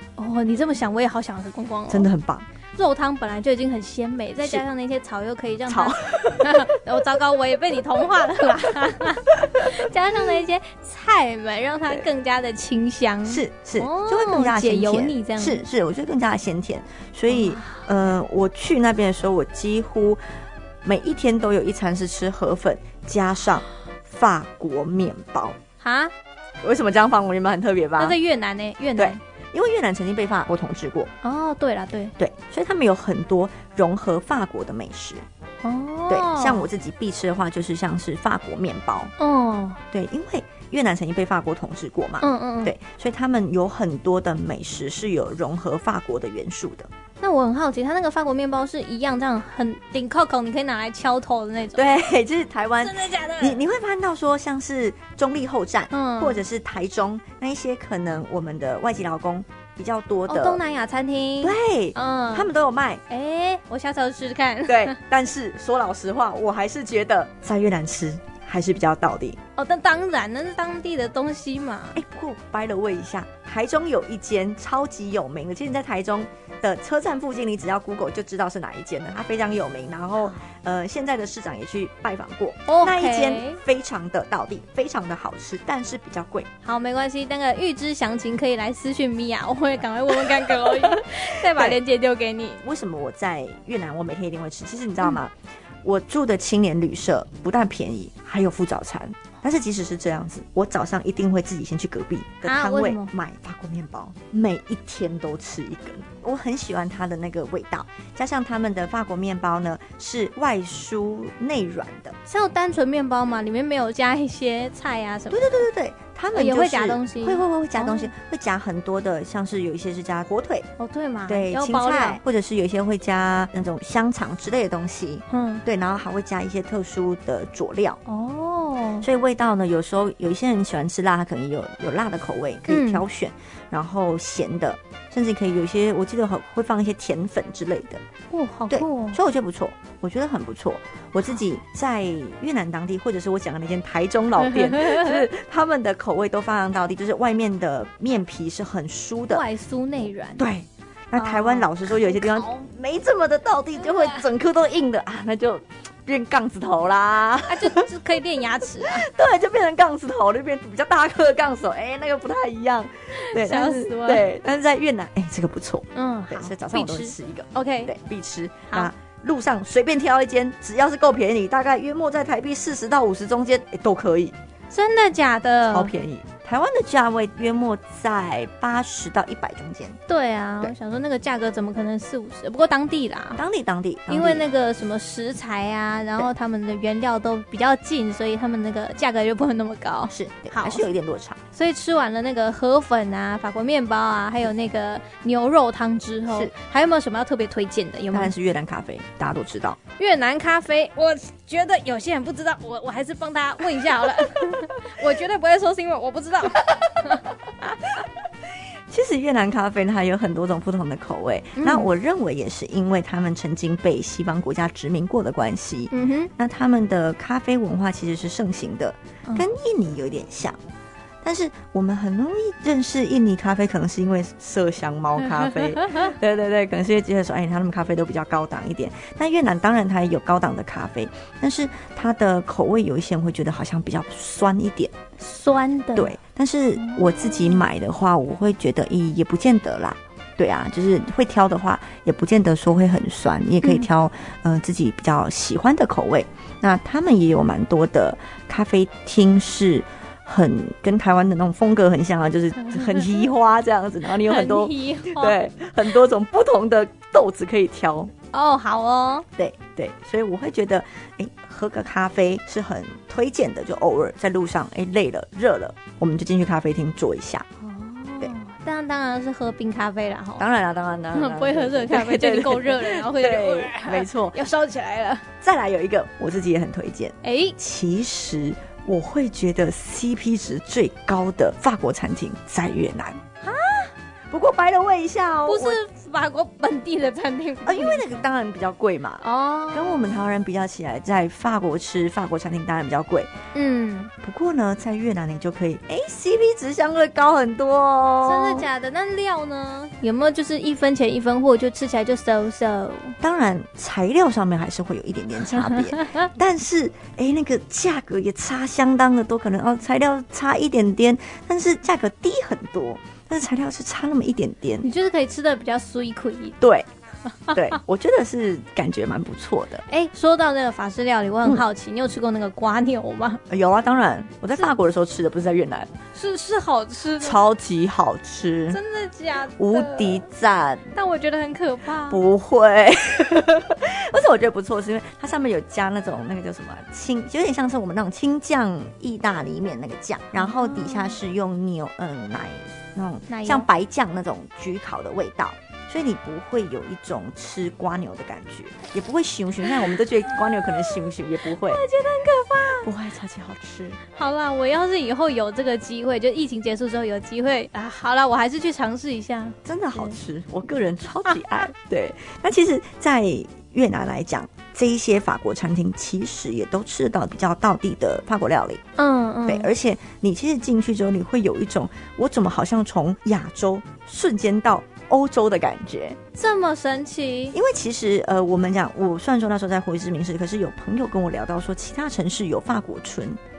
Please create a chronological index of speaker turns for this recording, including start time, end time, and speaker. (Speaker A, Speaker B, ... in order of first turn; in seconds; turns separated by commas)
Speaker A: 0.2-2.1, Speaker B: 1.9-2.5, Speaker A: 2.7-15.6, Speaker B: 5.7-6.7, Speaker B: 13.2-20.2, Speaker A: 17.3-17.8, Speaker B: 20.8-25.6, Speaker A: 25.8-26.1, Speaker B: 26.6-28.2, Speaker A: 28.0-29.2, Speaker B: 29.0-31.1, Speaker A: 31.2-32.1, Speaker B: 32.2-35.2, Speaker A: 35.6-36.7, Speaker B: 36.1-39.1, Speaker A: 39.2-39.8, Speaker B: 39.9-46.9, Speaker A: 42.2-42.7, Speaker A: 47.2-51.9, Speaker B: 51.7-60.6, Speaker A: 52.8-53.6, Speaker A: 55.9-56.4, Speaker A: 60.2-62.5, Speaker B: 61.4-63.0, Speaker A: 63.1-65.0, Speaker B: 64.7-69.4, Speaker A: 69.6-72.0, Speaker B: 71.9-86.5, Speaker A: 82.7-83.6, Speaker A: 86.6-92.6, Speaker B: 90.1-91.8, Speaker B: 92.6-95.3, Speaker B: 95.8-112.2, Speaker A: 102.4-103.1, Speaker A: 112.2-115.7, Speaker B: 115.3-120.7, Speaker A: 116.3-118.1, Speaker A: 120.8-122.2, Speaker B: 121.3-128.0, Speaker A: 125.3-125.6, Speaker A: 128.1-129.1, Speaker B: 129.0-138.0, Speaker A: 132.7-133.0, Speaker A: 138.3-139.2, Speaker B: 138.7-149.5, Speaker A: 144.5-145.2, Speaker A: 149.3-150.4, Speaker B: 150.4-157.9, Speaker A: 151.2-152.6, Speaker A: 153.9-154.2, Speaker A: 157.5-159.1, Speaker B: 158.7-174.3, Speaker A: 163.1-164.3, Speaker A: 165.9-167.9, Speaker A: 174.7-175.9, Speaker B: 175.7-180.0, Speaker A: 180.1-183.4, Speaker B: 183.3-184.5, Speaker A: 184.1-190.9, Speaker B: 190.1-191.4, Speaker A: 191.5-198.3, Speaker B: 196.3-196.5, Speaker B: 198.1-199.8, Speaker A: 200.0-207.2, Speaker B: 208.9-220.6, Speaker A: 211.6-211.9, Speaker A: 215.9-216.3, Speaker B: 221.2-234.9, Speaker A: 235.2-236.2, Speaker B: 235.9-258.1, Speaker A: 236.8-237.6, Speaker A: 252.7-253.1, Speaker A: 254.2-255.4, Speaker A: 258.3-259.2, Speaker B: 259.4-267.5, Speaker A: 267.6-270.4, Speaker B: 270.4-274.4, Speaker A: 271.1-275.2, Speaker B: 275.4-283.2, Speaker A: 277.2-277.6, Speaker A: 283.4-283.9, Speaker B: 284.3-285.8, Speaker A: 285.4-288.1, Speaker B: 287.6-293.3, Speaker A: 289.2-290.2, Speaker A: 293.5-294.1, Speaker B: 294.2-298.7, Speaker A: 298.2-303.2, Speaker B: 303.2-314.9, Speaker A: 314.8-316.6, Speaker B: 316.6-316.9, Speaker A: 317.5-317.7, Speaker B: 317.5-319.8, Speaker A: 319.9-323.4, Speaker B: 323.5-325.9, Speaker A: 326.1-327.4, Speaker B: 327.2-328.8, Speaker A: 328.7-330.2, Speaker B: 329.6-331.0, Speaker A: 330.9-332.2, Speaker B: 332.1-351.8, Speaker A: 340.3-341.1, Speaker A: 343.3-343.7, Speaker A: 351.5-352.9, Speaker B: 352.8-354.0, Speaker A: 354.1-360.1, Speaker B: 359.6-368.8, Speaker A: 369.0-369.7, Speaker B: 369.4-376.2, Speaker A: 376.3-377.6, Speaker B: 377.5-383.4